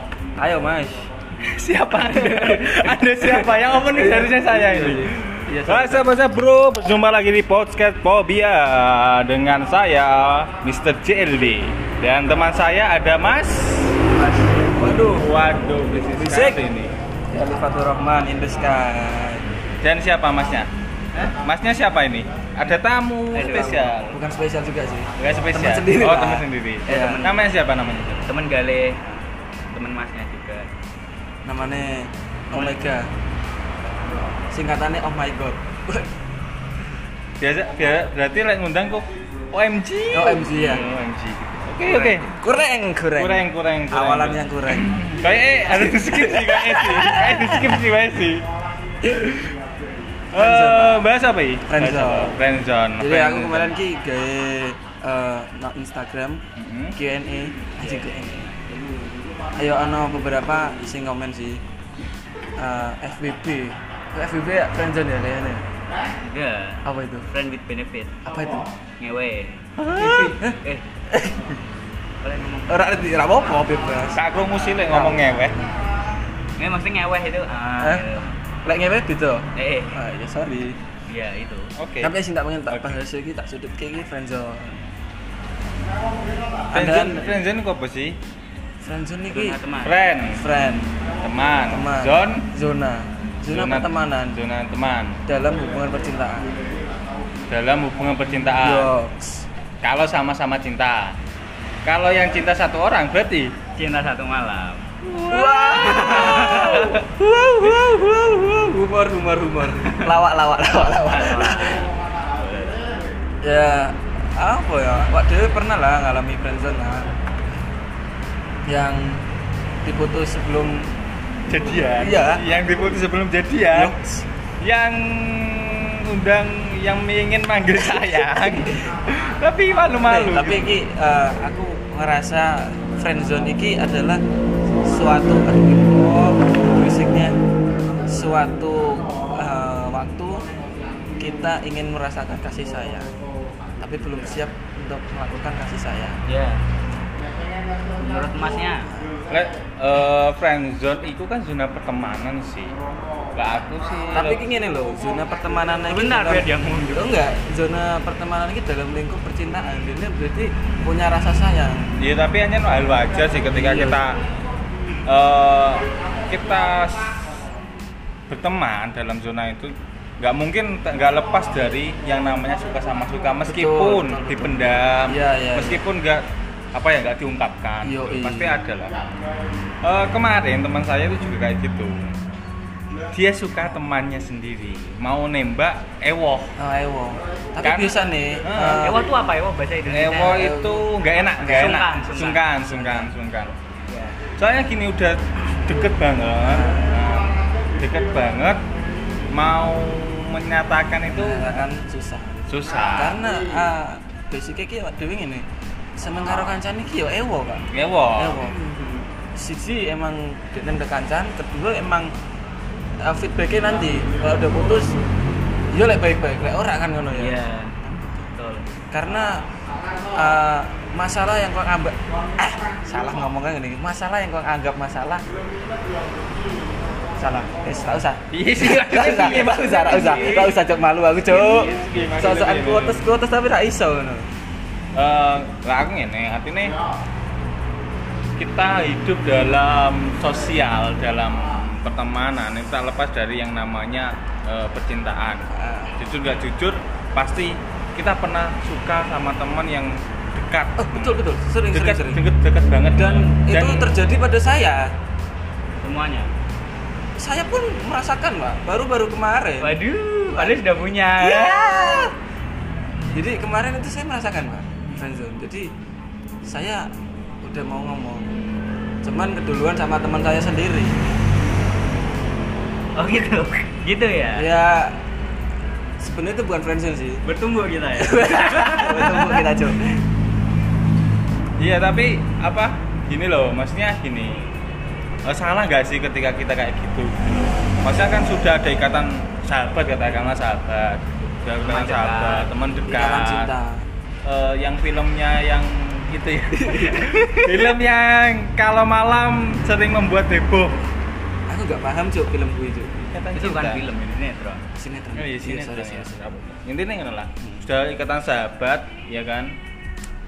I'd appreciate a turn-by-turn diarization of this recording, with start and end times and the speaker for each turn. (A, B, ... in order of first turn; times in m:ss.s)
0:00.4-0:01.1 A
0:01.4-0:14.0 B
0:01.9-0:06.1 A
0:14.1-0:15.3 A
0:14.8-0:16.9 B
0:16.0-0:16.6 A
0:17.3-0:19.4 A
0:19.8-0:20.7 B
0:21.3-0:24.2 B
0:23.3-0:27.2 A
0:23.4-0:23.7 C
0:25.2-0:28.3 B
0:26.9-0:27.4 C
0:28.3-0:29.2 C
0:29.7-0:30.7 C
0:31.4-0:33.1 A
0:32.5-0:32.9 C
0:34.5-0:36.1 A
0:37.4-0:42.3 B
0:40.1-0:40.9 A
0:41.8-0:45.0 A
0:43.1-0:48.5 B
0:45.7-0:47.7 A
0:49.0-0:49.5 B
0:49.0-0:49.4 A
0:50.3-0:53.7 B
0:50.3-0:51.0 A
0:51.6-0:52.3 A
0:53.0-0:56.4 A
0:56.6-0:57.0 B
0:56.9-0:58.5 A
0:57.8-0:58.3 C
0:59.5-1:01.6 A
1:02.6-1:05.7 A
1:06.1-1:08.2 C
1:06.8-1:07.3 A
1:08.2-1:08.7 A
1:09.0-1:10.8 C
1:09.8-1:11.6 A
1:12.2-1:12.9 C
1:12.7-1:14.2 A
1:14.1-1:15.5 B
1:14.8-1:15.5 A
1:16.6-1:18.4 C
1:17.8-1:18.1 A
1:18.6-1:20.8 A
1:19.5-1:20.0 C
1:21.1-1:21.7 C
1:21.8-1:23.0 B
1:22.0-1:24.8 A
1:26.7-1:27.2 A
1:26.7-1:28.2 B
1:28.8-1:29.6 A
1:29.3-1:30.0 C
1:29.8-1:30.4 B
1:30.3-1:31.0 A
1:31.2-1:32.5 B
1:31.7-1:34.4 A
1:33.5-1:35.2 B
1:35.2-1:36.6 A
1:37.5-1:38.9 B
1:38.6-1:39.5 A
1:39.8-1:41.2 B
1:41.8-1:43.6 B
1:43.7-1:44.9 C
1:45.0-1:46.5 B
1:45.1-1:51.8 A
1:45.8-1:47.0 C
1:50.8-1:52.8 C
1:53.4-1:57.1 A
1:58.6-1:59.2 A
1:59.8-2:00.9 A
2:01.5-2:03.9 B
2:01.8-2:02.4 A
2:03.7-2:04.3 A
2:04.6-2:10.8 B
2:07.9-2:08.9 A
2:10.0-2:14.2 A
2:14.8-2:17.4 A
2:17.9-2:20.5 A
2:21.1-2:23.1 A
2:23.8-2:26.2 A
2:26.3-2:26.6 C
2:27.9-2:28.9 C
2:29.3-2:32.8 B
2:33.3-2:34.4 B
2:34.1-2:41.9 A
2:35.9-2:37.2 C
2:42.0-2:44.2 B
2:43.5-2:44.0 A
2:45.0-2:47.2 B
2:48.3-2:59.0 B
2:53.4-2:55.8 A
2:57.8-2:58.6 A
2:59.8-3:02.2 B
3:03.1-3:06.6 B
3:06.6-3:09.0 A
3:07.6-3:09.0 B
3:08.8-3:10.6 C
3:09.9-3:13.5 B
3:10.3-3:11.9 A
3:11.4-3:13.1 C
3:13.9-3:14.2 C
3:14.3-3:18.6 B
3:16.4-3:17.0 A
3:19.3-3:21.7 B
3:21.1-3:28.6 A
3:22.5-3:23.2 B
3:26.2-3:26.5 B
3:27.7-3:28.5 B
3:28.4-3:29.1 C
3:29.3-3:32.1 A
3:33.0-3:35.0 A
3:35.7-3:38.3 A
3:37.1-3:37.8 C
3:38.3-3:38.8 C
3:38.9-3:45.2 A
3:47.0-3:54.3 A
3:48.3-3:50.6 B
3:51.2-3:53.1 B
3:54.9-3:56.8 B
3:58.4-4:14.0 B
4:05.5-4:06.0 A
4:10.8-4:12.2 A
4:12.9-4:14.9 A
4:15.8-4:16.3 C
4:17.2-4:22.1 A
4:19.6-4:22.1 C
4:23.1-4:25.7 A
4:26.4-4:28.4 A
4:29.0-4:31.0 A
4:33.0-4:34.5 C
4:34.3-4:35.0 A
4:36.0-4:37.2 A
4:37.2-4:39.4 C
4:38.0-4:39.8 A
4:41.6-4:44.4 B
4:45.2-4:53.5 B
4:51.6-4:52.5 C
4:52.8-4:53.9 A
4:54.2-5:00.8 B
4:56.5-4:57.6 A
5:01.5-5:03.1 A
5:03.1-5:03.9 B
5:03.3-5:04.7 C
5:04.7-5:06.2 A
5:05.2-5:09.5 B